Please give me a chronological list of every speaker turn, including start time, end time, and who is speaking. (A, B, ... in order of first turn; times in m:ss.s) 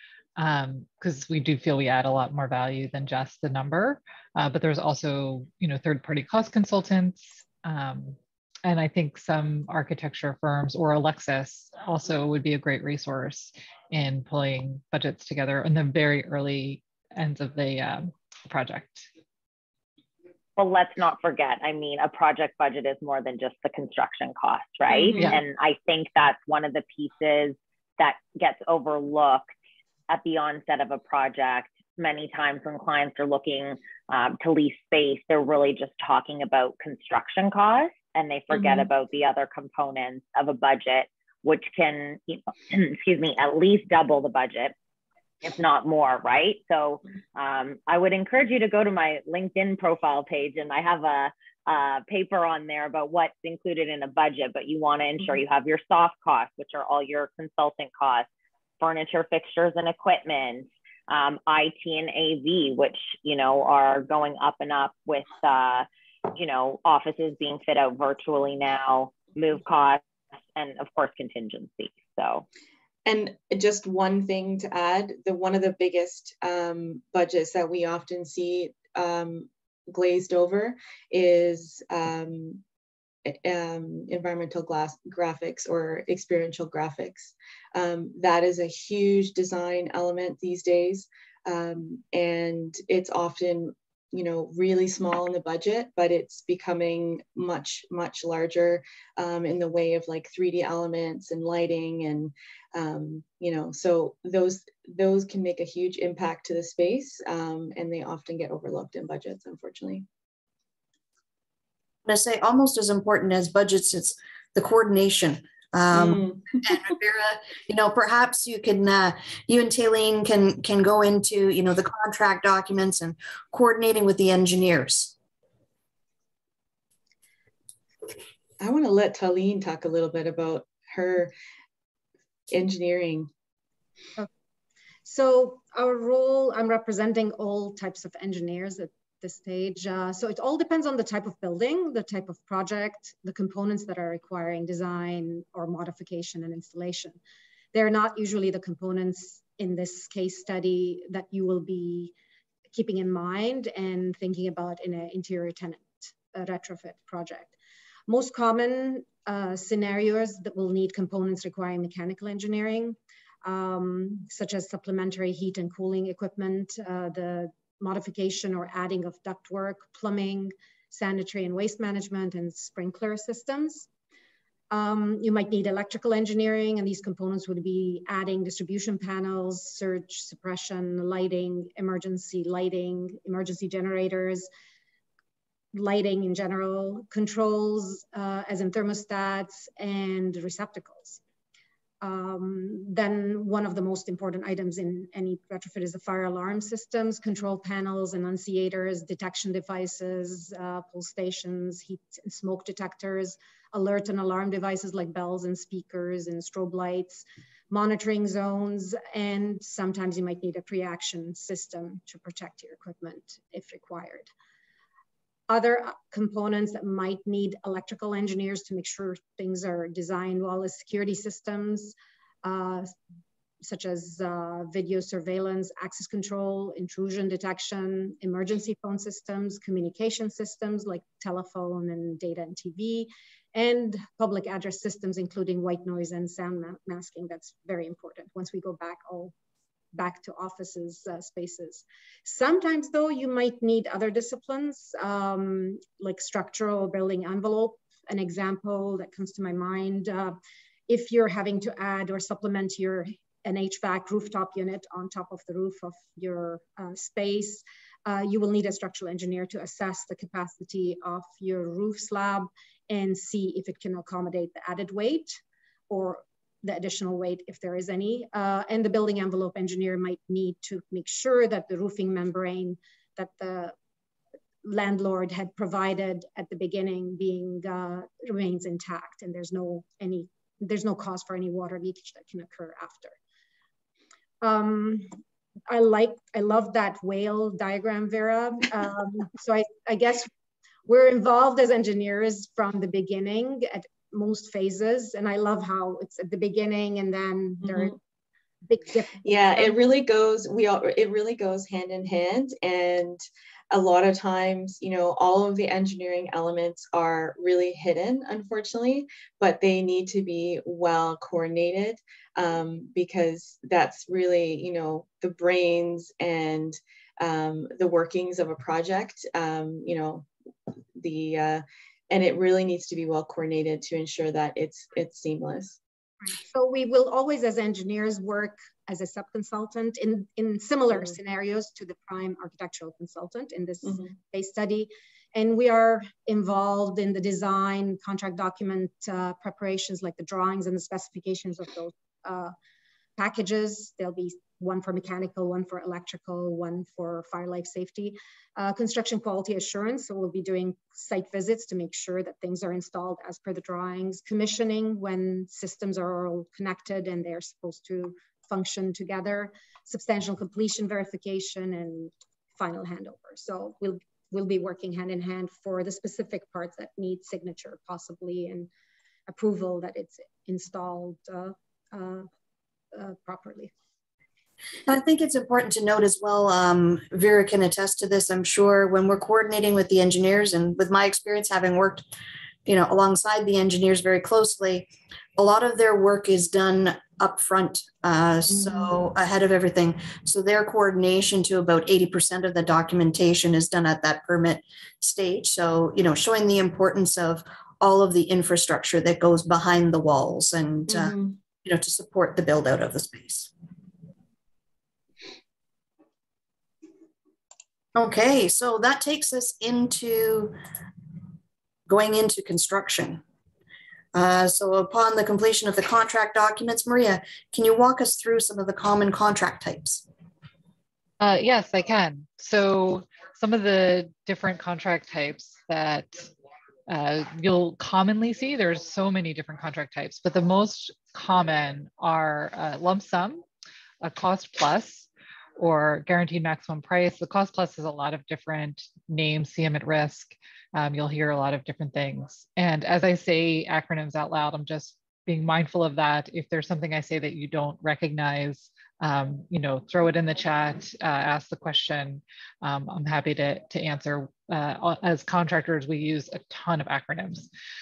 0:00.4-0:19.1 A
0:20.6-0:29.4 B
0:24.9-0:25.3 C
0:30.1-0:44.7 B
0:38.5-0:38.9 C
0:45.4-0:58.3 B
0:58.8-1:10.0 B
1:10.5-1:12.4 B
1:13.0-1:22.6 C
1:23.2-1:50.0 C
1:52.0-2:05.1 D
1:55.9-1:56.6 C
2:08.6-2:11.3 C
2:12.5-2:13.3 C
2:15.0-2:27.2 E
2:27.7-2:32.1 E
2:32.7-2:37.5 E
2:38.1-2:53.9 E
2:54.7-3:04.5 E
3:05.7-3:11.2 E
3:12.0-3:34.3 E
3:35.5-3:42.9 E
3:43.6-3:59.3 E
3:59.9-4:33.7 E
4:34.6-4:43.2 E
4:44.4-4:45.1 E
4:45.7-4:50.3 E
4:50.9-4:58.0 E
4:57.6-4:57.9 C
4:58.6-4:59.8 E
4:59.2-5:20.3 C
5:20.9-5:25.8 C
5:26.4-5:42.5 E
5:33.8-5:34.1 C
5:43.2-6:08.7 E
6:09.3-6:12.3 E
6:12.9-6:13.7 E
6:14.8-6:22.0 D
6:22.6-6:43.5 D
6:28.5-6:29.0 C
6:40.9-6:41.4 C
6:47.9-6:50.6 D
6:51.9-6:53.2 D
6:54.1-7:00.0 D
7:01.2-7:06.3 A
7:06.9-7:13.4 A
7:14.0-7:37.5 A